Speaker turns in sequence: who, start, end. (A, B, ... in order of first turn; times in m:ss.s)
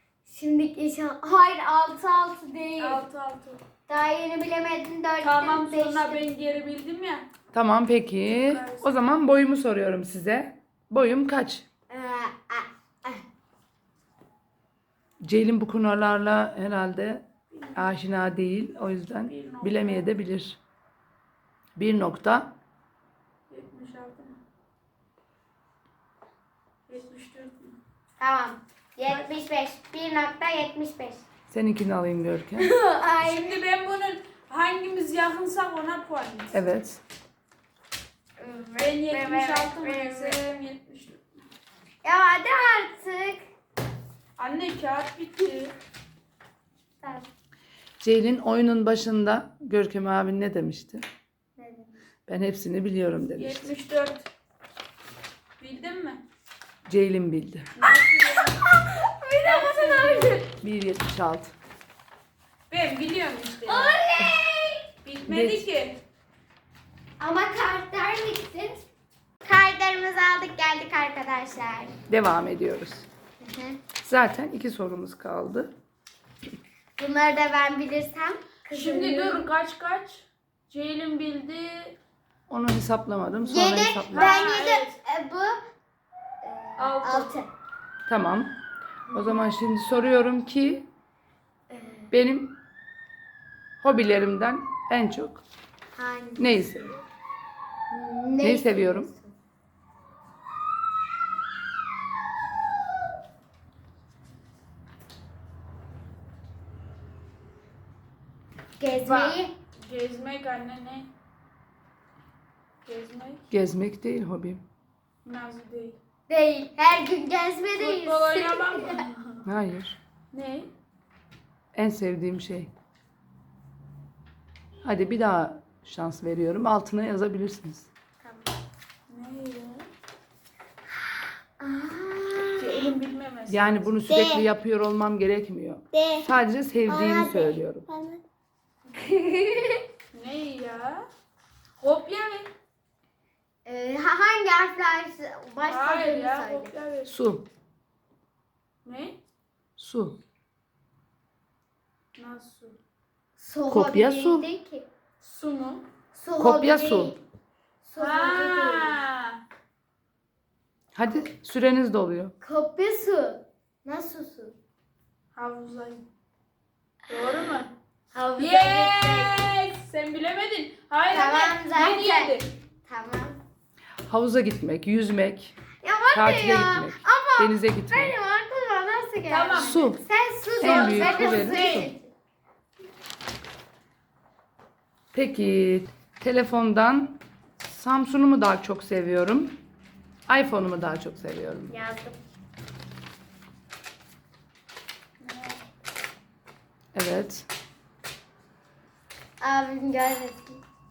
0:00.2-0:03.0 A
0:02.8-0:03.6 B
0:03.9-0:06.2 A
0:05.2-0:07.2 B
0:07.5-0:11.6 C
0:08.3-0:09.0 B
0:11.9-0:13.2 A
0:15.2-0:17.2 C
0:17.5-0:18.0 B
0:17.7-0:20.6 C
0:19.2-0:20.1 B
0:21.8-0:22.5 C
0:23.5-0:24.4 B
0:26.9-0:27.8 B
0:28.2-0:31.2 A
0:31.5-0:32.7 C
0:32.6-0:33.6 A
0:33.2-0:36.6 B
0:36.5-0:37.0 C
0:38.4-0:40.4 A
0:38.8-0:41.2 B
0:42.0-0:43.4 A
0:44.4-0:45.7 B
0:48.0-0:51.0 C
0:51.6-0:51.9 A
0:52.3-0:53.7 C
0:53.3-0:54.3 B
0:55.6-0:56.2 B
0:56.9-0:57.7 C
0:57.8-0:58.6 B
0:58.2-1:00.4 A
0:59.4-1:00.4 B
1:00.6-1:01.5 C
1:02.7-1:04.0 B
1:03.6-1:04.9 A
1:05.0-1:06.0 B
1:05.2-1:05.6 C
1:07.2-1:08.8 A
1:09.4-1:11.9 A
1:12.1-1:13.1 C
1:13.4-1:13.8 A
1:14.0-1:15.7 C
1:17.0-1:19.4 A
1:18.7-1:22.0 B
1:22.5-1:24.5 C
1:23.4-1:25.6 A
1:24.1-1:25.0 B
1:26.4-1:27.5 A
1:26.8-1:27.3 B
1:28.1-1:28.5 C
1:29.1-1:29.4 A
1:29.1-1:30.8 C
1:31.7-1:32.1 A
1:32.1-1:32.6 C
1:33.8-1:35.4 C
1:36.0-1:36.6 A
1:36.4-1:36.9 C
1:37.9-1:39.3 A
1:38.4-1:39.1 C
1:48.8-1:49.5 A
1:49.0-1:51.1 B
1:52.8-1:53.4 B
1:53.5-1:54.6 C
1:55.2-1:56.0 B
1:56.3-1:59.1 A
1:57.8-1:59.5 B
1:59.4-2:00.0 C
2:00.3-2:00.7 B
2:01.7-2:02.7 C
2:04.8-2:07.9 C
2:08.2-2:08.5 A
2:09.1-2:09.9 B
2:11.6-2:12.9 A
2:12.6-2:13.9 B
2:13.5-2:17.8 C
2:14.1-2:14.4 A
2:15.9-2:16.3 A
2:16.9-2:18.2 A
2:18.9-2:19.8 A
2:20.1-2:21.0 B
2:21.8-2:22.5 B
2:23.6-2:26.7 A
2:25.7-2:27.1 B
2:27.0-2:27.4 C
2:28.8-2:29.2 B
2:29.8-2:30.2 C
2:32.2-2:32.8 B
2:33.4-2:34.9 A
2:33.7-2:34.5 C
2:35.2-2:35.8 B
2:36.1-2:37.2 A
2:36.4-2:37.2 C
2:37.8-2:39.0 A
2:38.0-2:39.4 B
2:40.9-2:42.3 C
2:42.4-2:44.5 A
2:45.3-2:46.0 B
2:47.1-2:47.7 B
2:48.1-2:49.4 A
2:48.4-2:52.5 B
2:51.1-2:53.4 A
2:54.1-2:55.6 C
2:55.8-3:02.1 A
2:56.1-2:58.1 C
2:59.3-2:59.8 B
2:59.6-3:00.0 C
3:00.6-3:01.9 B
3:00.6-3:01.9 C
3:05.1-3:09.6 C
3:10.3-3:11.7 C
3:11.7-3:12.2 A
3:15.2-3:15.6 B
3:16.9-3:17.5 C
3:19.4-3:20.6 A